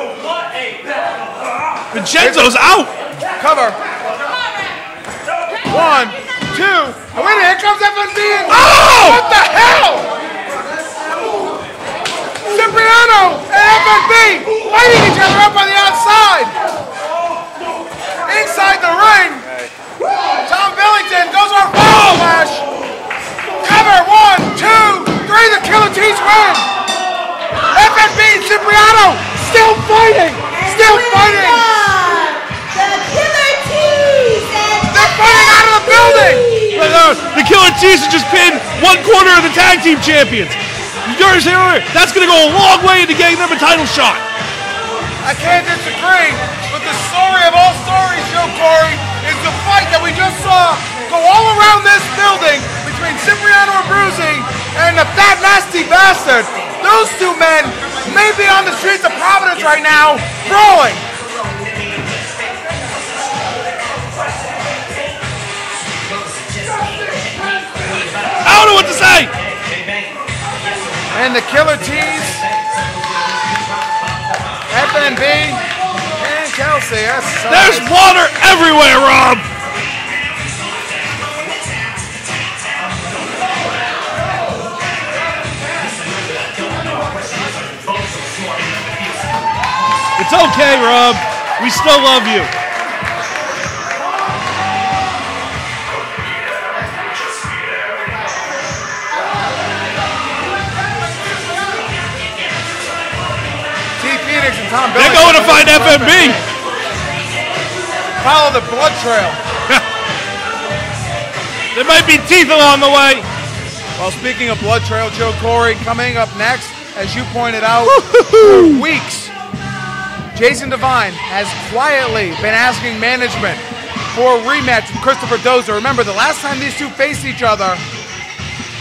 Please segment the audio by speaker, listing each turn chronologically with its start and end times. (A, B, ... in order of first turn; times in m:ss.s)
0:01.9-0:02.9 A
0:02.2-0:02.6 B
0:03.4-0:03.8 B
0:05.7-0:10.1 B
0:08.5-0:09.2 A
0:12.4-0:16.5 B
0:18.2-0:19.4 B
0:20.4-0:22.6 B
0:23.6-0:26.7 B
0:27.7-0:31.7 B
0:30.5-0:37.2 C
0:34.9-0:36.5 B
0:36.7-0:44.2 A
0:45.2-1:01.0 B
1:08.4-1:09.3 A
1:11.1-1:12.4 B
1:14.7-1:15.6 B
1:16.2-1:17.9 B
1:17.5-1:19.4 A
1:30.2-1:32.5 A
1:44.0-1:46.5 B
1:44.9-1:46.4 A
1:48.2-1:49.4 B
1:51.7-1:53.3 A
1:54.0-1:59.3 B
1:57.9-1:58.8 A
2:00.3-2:07.8 B